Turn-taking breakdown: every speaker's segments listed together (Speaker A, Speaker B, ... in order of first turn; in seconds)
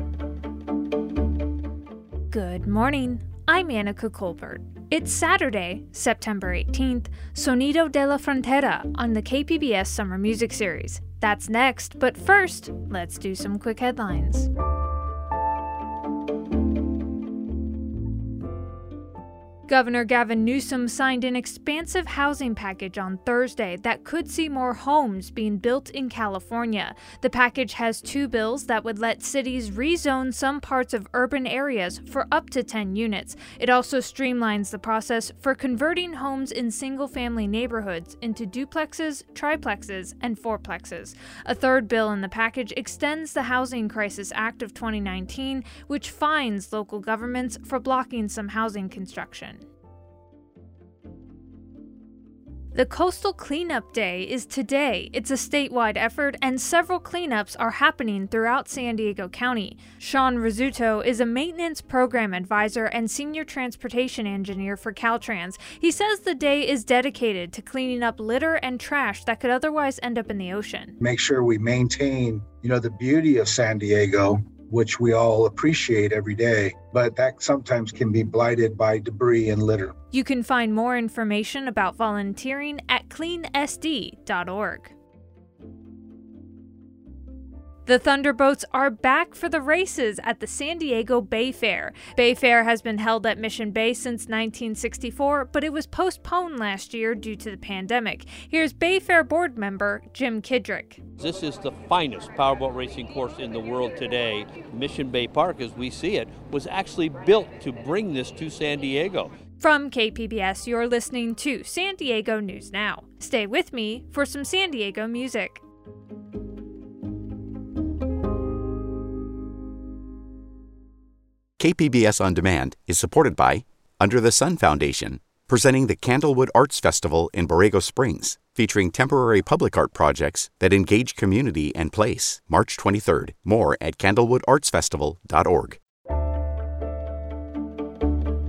Speaker A: 2.3-14.5, 19.7-49.6, 52.7-70.9, 80.1-84.9, 87.8-101.0, 109.6-115.6
Speaker B: 71.0-79.9
Speaker C: 101.2-109.3
Speaker D: 121.6-135.8